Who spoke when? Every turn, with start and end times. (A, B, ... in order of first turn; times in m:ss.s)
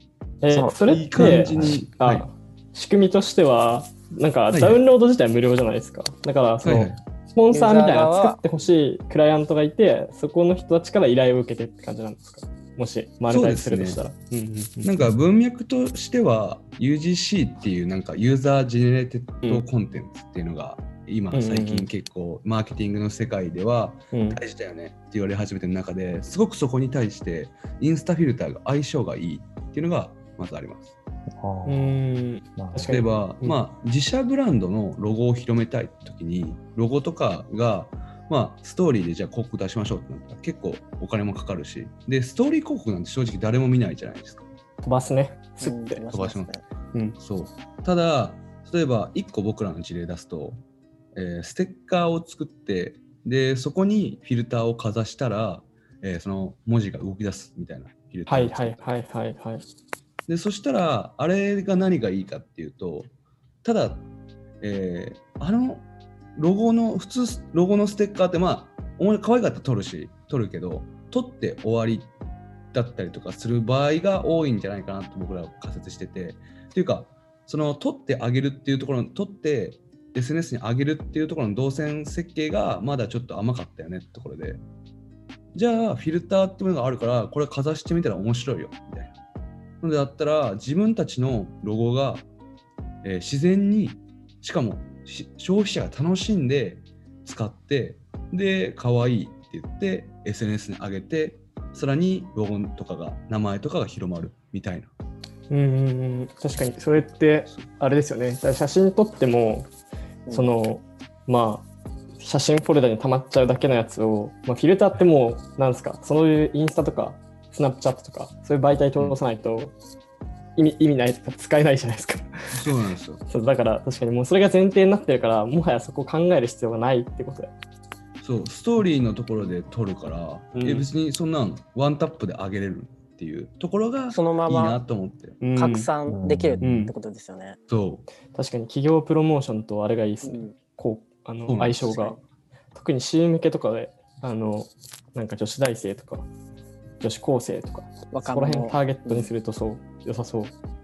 0:00.4-0:15.2 A
0:00.5-0:01.8 B
0:00.9-0:02.2 C
0:04.5-0:04.8 C
0:06.6-0:07.0 C
0:07.5-0:08.4 D
0:13.3-0:14.0 C
0:14.8-0:30.9 C
0:21.3-0:21.9 A
0:24.1-0:24.4 A
0:31.3-0:32.0 B
0:31.7-0:33.6 A
0:32.6-0:33.0 B
0:32.9-0:44.4 C
0:44.8-0:46.0 A
0:45.6-0:46.6 D
0:46.1-0:46.5 C
0:47.2-0:50.6 C
0:51.2-0:58.8 C
0:58.3-0:59.6 A
1:00.3-1:03.1 C
1:03.6-1:04.1 C
1:04.6-1:05.8 C
1:06.4-1:12.1 C
1:12.7-1:24.6 C
1:25.5-1:29.1 C
1:29.8-1:32.2 C
1:33.0-1:44.9 C
1:45.5-1:49.7 A
1:50.3-1:51.7 A
1:52.2-1:59.8 A
2:00.6-2:02.7 A
2:02.5-2:03.2 C
2:03.3-2:07.5 A
2:08.2-2:15.4 C
2:10.6-2:10.9 A
2:14.1-2:14.8 D
2:15.4-2:15.9 A
2:15.6-2:17.6 D
2:16.1-2:16.7 B
2:16.6-2:16.9 A
2:17.7-2:18.1 C
2:18.3-2:22.2 A
2:20.2-2:20.5 D
2:21.5-2:21.9 C
2:22.8-2:26.3 A
2:27.0-2:30.6 A
2:28.1-2:29.3 D